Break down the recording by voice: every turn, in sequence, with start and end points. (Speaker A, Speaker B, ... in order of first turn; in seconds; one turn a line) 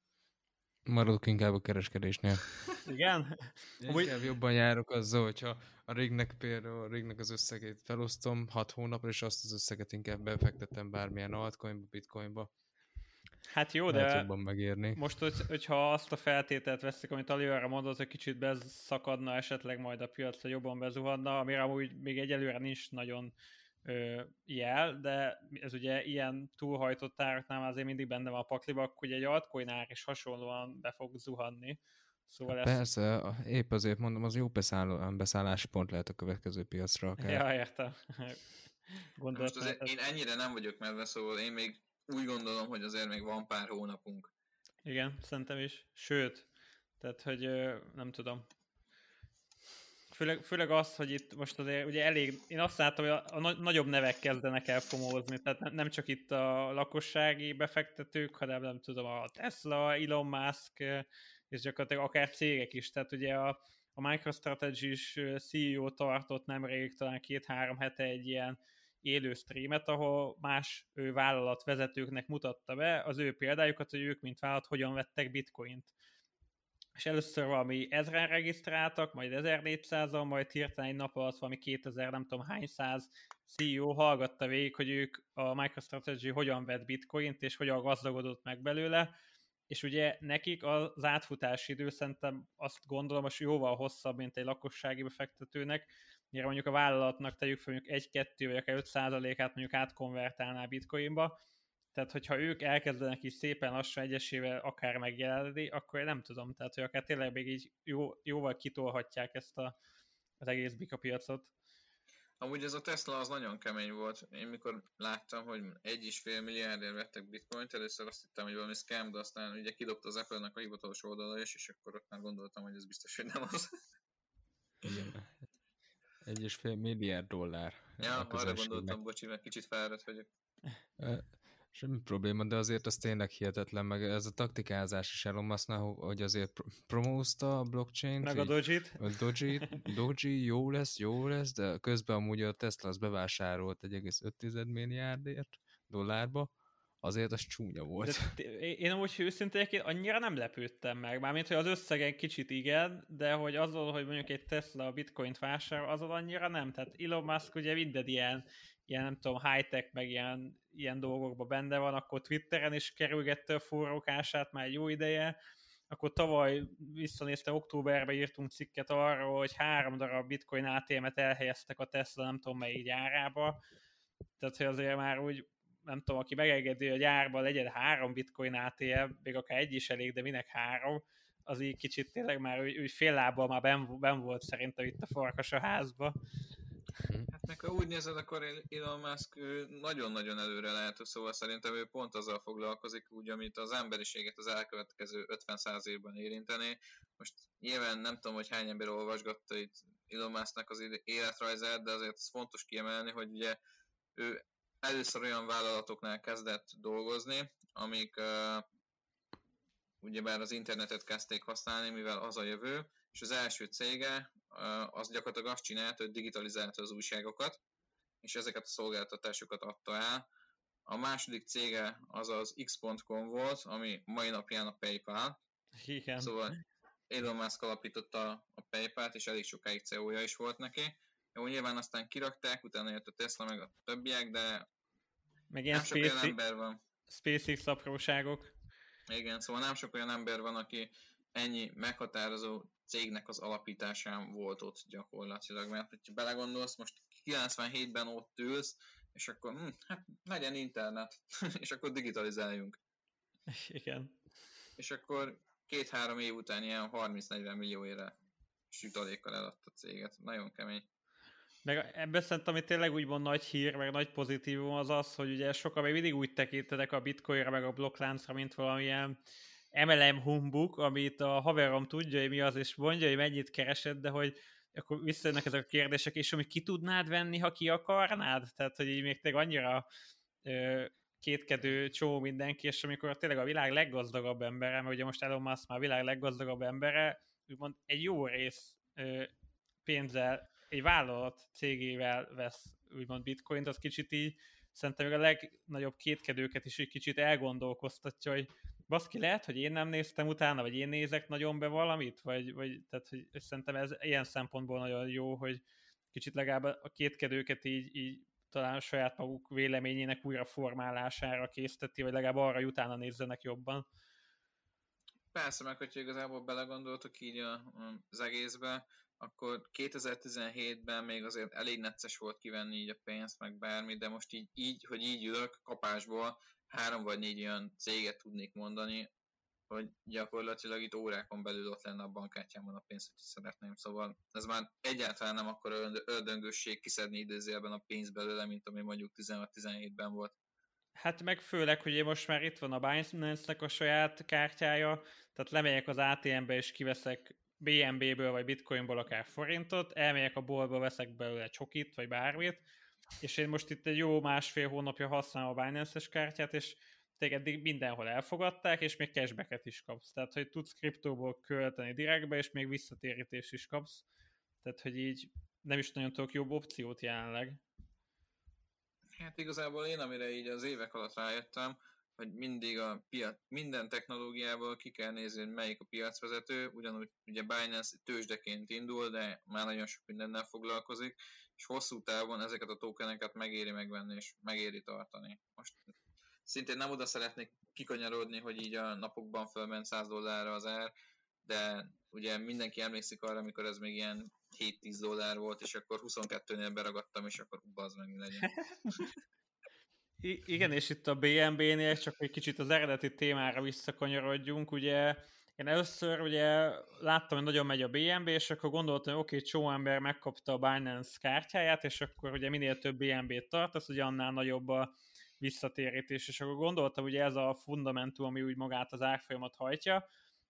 Speaker A: 0.9-2.6
Speaker B: 2.9-4.1
Speaker A: 3.8-12.5
Speaker B: 13.5-23.3
Speaker A: 13.9-15.0
Speaker B: 23.9-32.8
Speaker A: 32.6-37.5
Speaker B: 37.2-39.9
Speaker C: 39.4-44.3
Speaker B: 44.9-46.5
Speaker B: 47.0-48.5
Speaker B: 50.1-75.9
Speaker B: 77.0-89.1
Speaker B: 89.7-101.4
Speaker B: 101.9-109.8
Speaker B: 110.4-111.5
Speaker C: 112.4-123.7
Speaker A: 124.8-125.3
Speaker A: 126.2-129.0
Speaker C: 128.0-130.3
Speaker A: 131.0-148.4
Speaker B: 138.2-139.2
Speaker B: 148.0-165.3
Speaker B: 165.9-173.6
Speaker B: 174.4-186.2
Speaker A: 187.1-187.3
Speaker C: 187.3-203.6
Speaker C: 204.2-208.7
Speaker C: 210.0-217.6
Speaker C: 218.2-220.2
Speaker C: 220.9-225.4
Speaker B: 225.8-226.3
Speaker C: 226.2-226.6
Speaker C: 227.1-234.7
Speaker B: 235.5-236.4
Speaker C: 235.7-236.8
Speaker B: 237.1-238.5
Speaker C: 239.1-252.8
Speaker B: 253.5-254.2
Speaker C: 254.8-258.1
Speaker C: 258.7-260.9
Speaker B: 261.6-269.2
Speaker B: 269.7-279.9
Speaker B: 280.4-289.3
Speaker B: 289.9-305.6
Speaker B: 306.1-313.9
Speaker C: 315.3-329.1
Speaker C: 329.7-340.3
Speaker B: 341.0-352.6
Speaker B: 353.2-364.0
Speaker B: 364.6-367.6
Speaker C: 369.2-385.9
Speaker C: 386.5-390.9
Speaker C: 391.4-399.0
Speaker B: 400.2-420.0